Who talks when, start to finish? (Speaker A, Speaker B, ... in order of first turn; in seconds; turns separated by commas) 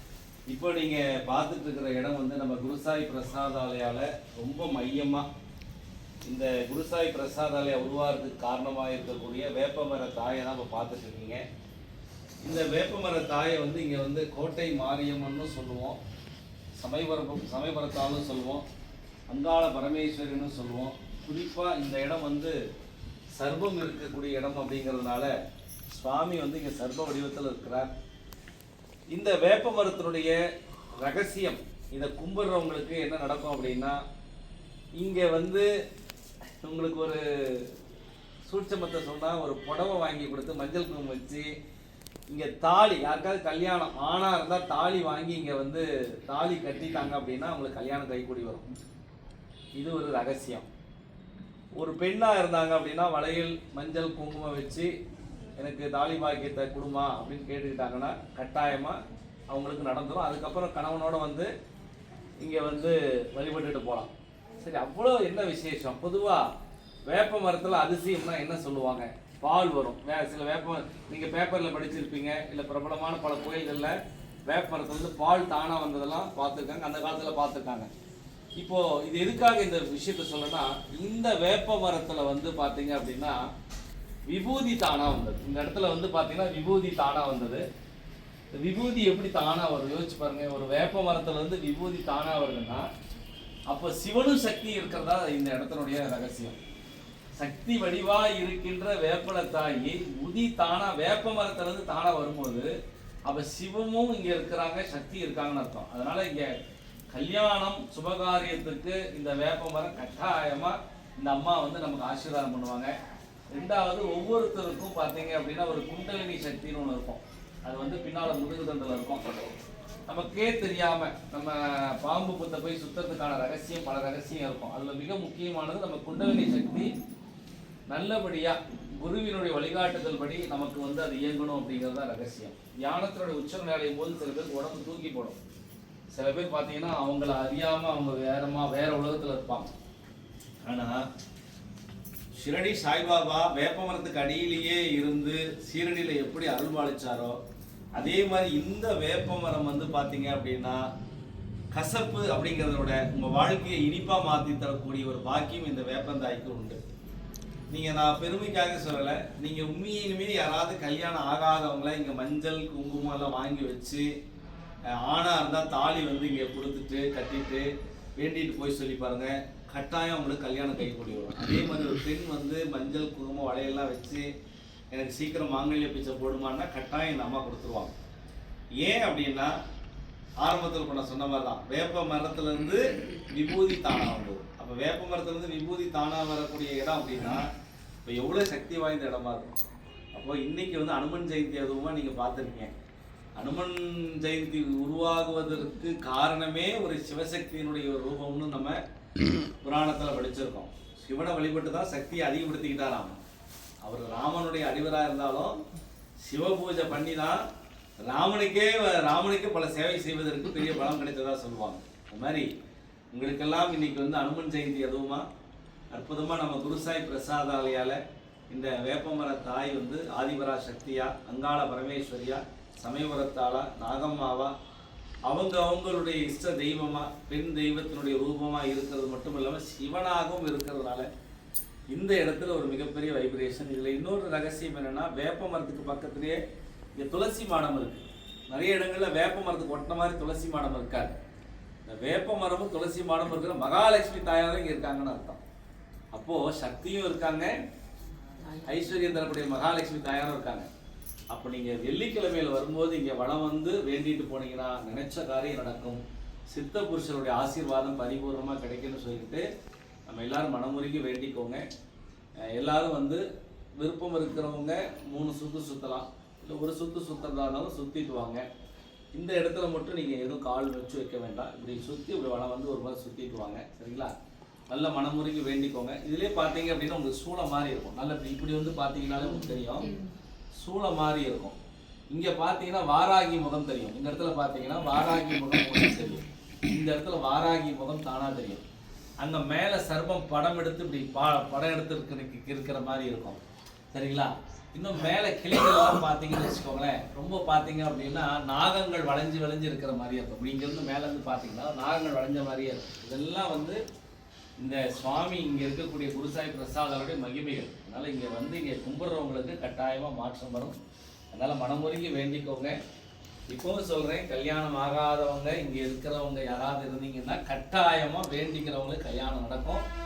Speaker A: 0.5-5.3, Speaker A: 6.2-11.4, Speaker A: 12.4-16.0, Speaker A: 16.8-18.6, Speaker A: 19.3-22.5, Speaker A: 23.4-25.3, Speaker A: 25.9-27.9, Speaker A: 29.1-30.4, Speaker A: 31.0-34.0, Speaker A: 35.0-35.7, Speaker A: 36.6-37.7, Speaker A: 38.5-41.5, Speaker A: 42.3-48.7, Speaker A: 49.8-50.7, Speaker A: 51.8-54.9, Speaker A: 55.6-59.0, Speaker A: 59.5-61.5, Speaker A: 62.4-66.5, Speaker A: 67.1-74.0, Speaker A: 74.5-77.9, Speaker A: 78.6-83.4, Speaker A: 84.3-87.6, Speaker A: 88.6-92.9, Speaker A: 93.7-96.6, Speaker A: 97.4-102.7, Speaker A: 103.3-106.6, Speaker A: 107.1-112.9, Speaker A: 113.5-119.3, Speaker A: 120.1-126.9, Speaker A: 127.9-135.4, Speaker A: 136.1-139.7, Speaker A: 140.7-141.0, Speaker A: 142.3-147.4, Speaker A: 147.9-150.8, Speaker A: 151.7-156.8, Speaker A: 157.7-164.1, Speaker A: 165.0-167.7, Speaker A: 168.2-174.3, Speaker A: 174.9-177.9, Speaker A: 178.8-179.5, Speaker A: 180.4-187.5, Speaker A: 188.1-189.5, Speaker A: 190.2-192.7, Speaker A: 193.4-198.8, Speaker A: 199.6-203.2, Speaker A: 203.8-205.6, Speaker A: 206.3-207.4, Speaker A: 208.1-212.5, Speaker A: 213.1-215.2, Speaker A: 215.9-218.0, Speaker A: 218.5-224.5, Speaker A: 225.3-231.1, Speaker A: 231.9-236.4, Speaker A: 237.0-241.2, Speaker A: 241.9-245.4, Speaker A: 246.1-247.5, Speaker A: 248.7-250.7, Speaker A: 251.3-259.4, Speaker A: 260.1-261.6, Speaker A: 262.6-263.2, Speaker A: 263.8-268.5, Speaker A: 269.1-274.1, Speaker A: 274.7-279.9, Speaker A: 280.6-281.6, Speaker A: 282.1-288.6, Speaker A: 289.2-293.4, Speaker A: 293.9-303.8, Speaker A: 304.6-310.8, Speaker A: 311.3-312.8, Speaker A: 313.5-319.8